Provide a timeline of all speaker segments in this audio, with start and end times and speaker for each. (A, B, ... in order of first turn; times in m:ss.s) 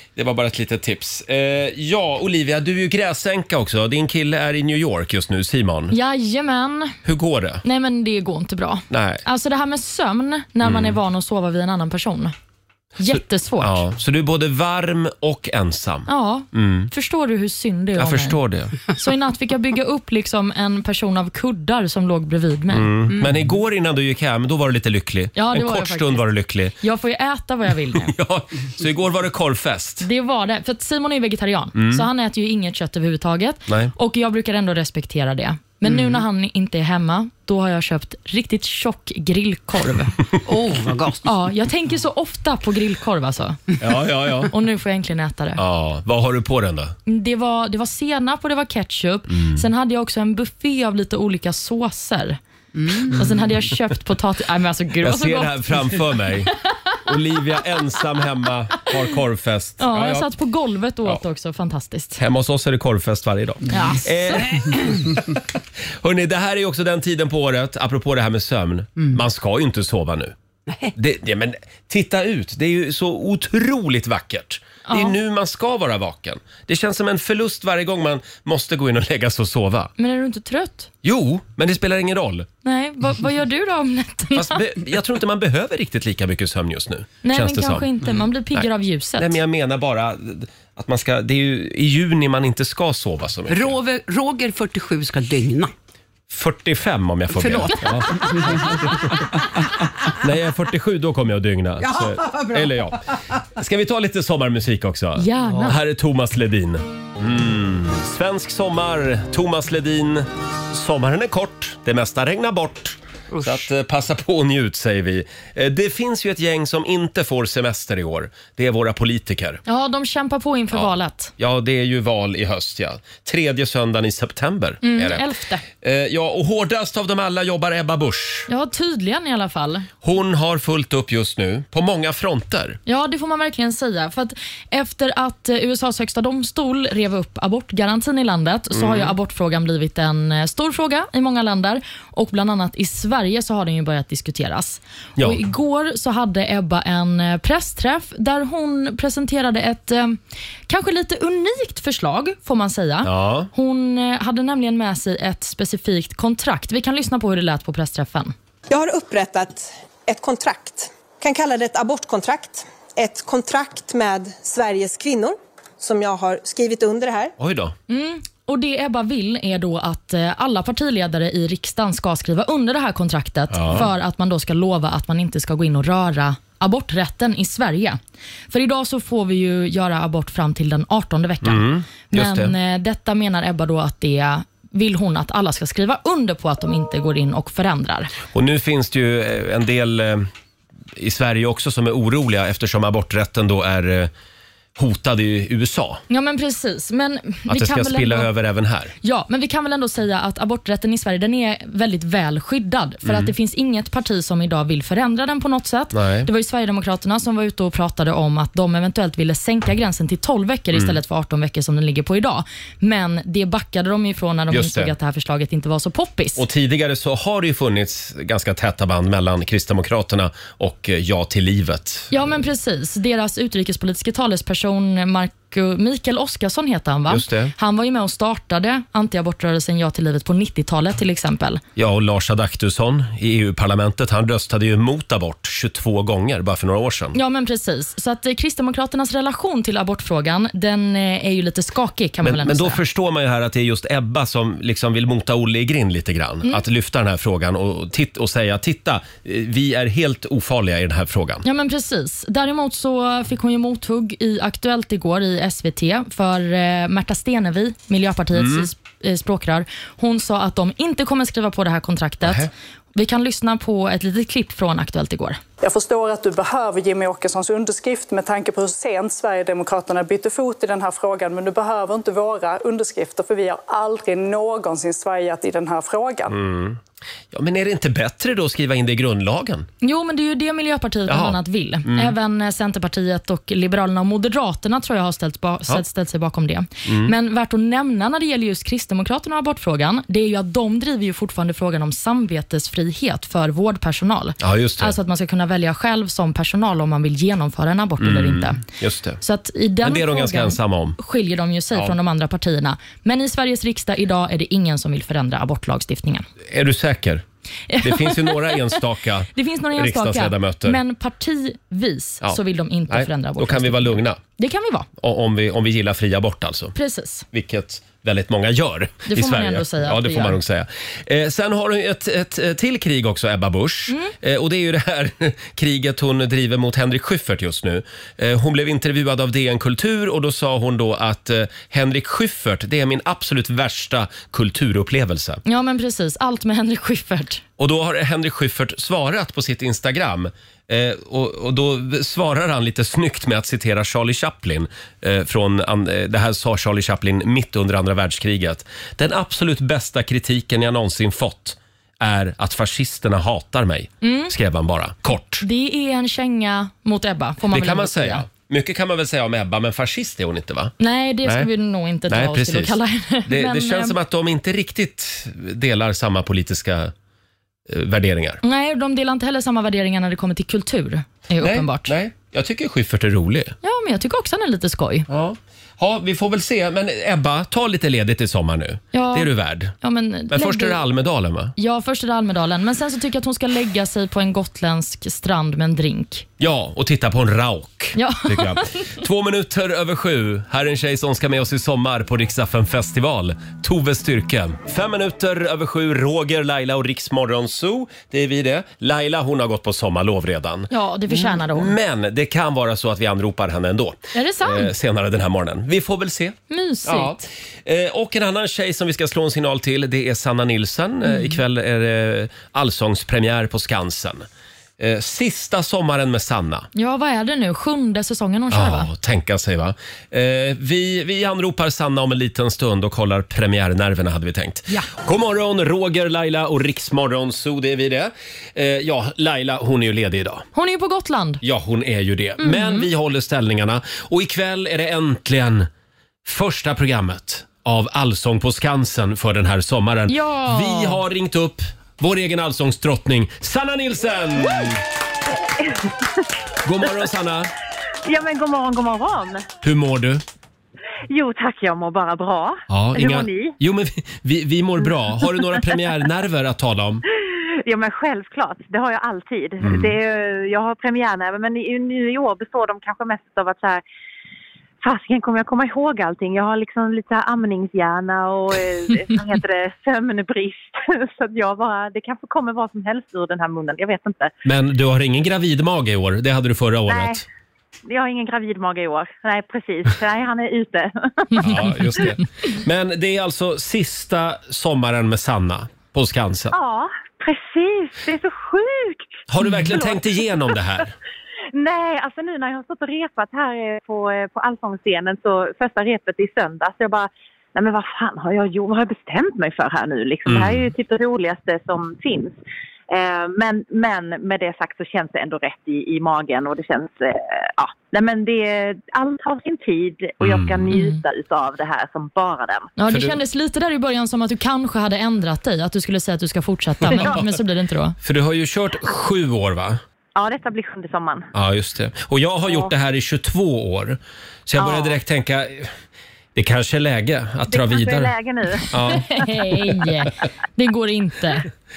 0:00.2-0:06.0 A
0:05.9-0:07.0 B
0:07.0-0:07.6 A
0:07.6-0:12.3 B
0:08.9-0:09.2 A
0:10.6-0:11.0 A
0:13.0-0:13.8 B
0:13.0-0:16.9 A
0:16.1-0:18.4 B
0:18.0-0:18.8 A
0:19.0-0:22.9 B
0:22.7-0:26.7 A
0:23.1-0:23.4 C
0:25.3-0:28.1 B
0:27.9-0:30.1 A
0:30.0-0:40.2 B
0:31.8-0:32.0 A
0:33.7-0:33.9 A
0:35.8-0:36.2 C
0:40.4-0:41.3 C
0:41.2-0:43.7 B
0:43.8-0:44.5 A
0:44.5-0:45.6 B
0:45.6-0:46.9 A
0:47.0-0:52.4 B
0:49.3-0:49.6 A
0:52.7-0:53.3 C
0:53.1-0:55.9 B
0:55.0-0:56.5 A
0:57.0-1:00.3 A
0:59.8-1:02.2 B
1:02.2-1:04.8 A
1:03.7-1:04.5 B
1:06.0-1:10.3 A
1:10.7-1:10.9 C
1:10.9-1:19.9 A
1:14.9-1:15.2 B
1:20.0-1:20.9 B
1:21.0-1:22.5 A
1:22.6-1:24.6 B
1:24.3-1:27.9 A
1:27.2-1:29.4 B
1:28.5-1:33.8 A
1:33.5-1:35.7 C
1:36.3-1:38.8 A
1:37.3-1:38.9 C
1:37.6-1:38.0 B
1:40.2-1:43.0 A
1:41.8-1:43.0 C
1:43.6-1:59.6 A
1:45.2-1:45.8 B
1:53.3-1:53.7 C
1:59.7-2:01.3 B
2:00.7-2:05.3 A
2:04.8-2:05.6 B
2:05.8-2:08.5 A
2:08.5-2:09.9 B
2:10.0-2:12.8 A
2:12.8-2:38.3 B
2:18.7-2:19.1 A
2:33.0-2:33.5 A
2:38.7-2:47.3 D
2:47.4-2:47.7 A
2:47.9-2:58.0 B
2:53.5-2:53.9 A
2:58.5-3:08.1 B
3:01.4-3:02.5 A
3:08.3-3:10.3 A
3:11.0-3:14.1 A
3:14.8-3:16.0 A
3:16.1-3:18.3 B
3:17.5-3:18.9 A
3:19.0-3:36.4 B
3:23.0-3:23.3 A
3:25.9-3:26.3 A
3:34.5-3:34.9 A
3:36.4-3:42.2 A
3:42.1-3:51.6 B
3:47.1-3:47.5 A
3:51.8-3:57.2 A
3:57.1-4:02.8 B
4:02.2-4:11.4 A
4:11.4-4:25.4 B
4:18.3-4:18.7 A
4:22.2-4:22.5 A
4:25.6-4:36.3 E
4:36.3-4:36.8 A
4:37.3-4:39.7 A
4:39.8-4:58.6 B
4:41.1-4:42.1 A
4:46.8-4:47.1 A
4:54.4-4:55.0 A
4:58.0-4:59.2 A
4:59.2-5:06.3 B
4:59.8-5:01.0 A
5:06.4-5:07.2 A
5:07.7-5:08.8 B
5:07.8-5:10.8 A
5:09.3-5:14.9 B
5:12.9-5:14.2 A
5:15.0-5:16.7 A
5:16.7-5:17.2 B
5:17.3-5:35.4 A
5:19.1-5:20.4 B
5:35.4-5:37.4 B
5:37.6-5:55.4 A
5:54.0-5:54.3 B
5:55.4-5:58.2 B
5:57.4-6:01.5 A
6:00.8-6:04.0 B
6:02.1-6:06.9 A
6:07.7-6:08.4 A
6:08.4-6:11.9 B
6:11.4-6:13.6 A
6:13.6-6:15.1 B
6:15.1-6:19.7 A
6:18.9-6:20.8 B
6:20.3-6:21.5 A
6:21.6-6:26.2 B
6:26.4-6:54.3 A
6:28.0-6:28.9 B
6:40.7-6:41.7 B
6:44.1-6:44.7 B
6:46.5-6:47.2 B
6:51.0-6:51.4 B
6:54.8-6:56.7 A
6:56.7-6:58.9 B
6:58.5-7:10.4 A
7:10.5-7:11.4 B
7:11.4-7:15.7 A
7:12.4-7:12.9 B
7:16.2-7:24.8 A
7:20.1-7:21.0 B
7:26.6-7:27.5 A
7:28.0-7:29.4 F
7:29.6-7:30.2 A
7:31.1-7:33.6 F
7:32.7-7:37.0 A
7:37.6-7:43.8 F
7:39.6-7:39.9 A
7:44.8-7:54.3 F
7:54.4-7:57.2 A
7:56.9-7:57.2 F
7:57.9-8:01.5 F
8:01.4-8:06.5 A
8:06.5-8:10.6 F
8:09.3-8:10.9 A
8:11.5-8:22.4 F
8:20.3-8:20.7 A
8:22.9-8:32.7 F
8:30.2-8:30.7 A
8:30.7-8:31.0 B
8:32.8-8:38.0 B
8:32.9-8:33.2 A
8:36.9-8:37.3 A
8:36.9-8:37.2 F
8:38.0-8:39.8 A
8:40.2-8:41.3 F
8:41.3-8:45.7 A
8:44.6-8:45.0 F
8:46.3-8:48.1 A
8:47.5-8:48.9 F
8:48.7-8:49.1 A
8:48.8-8:51.4 B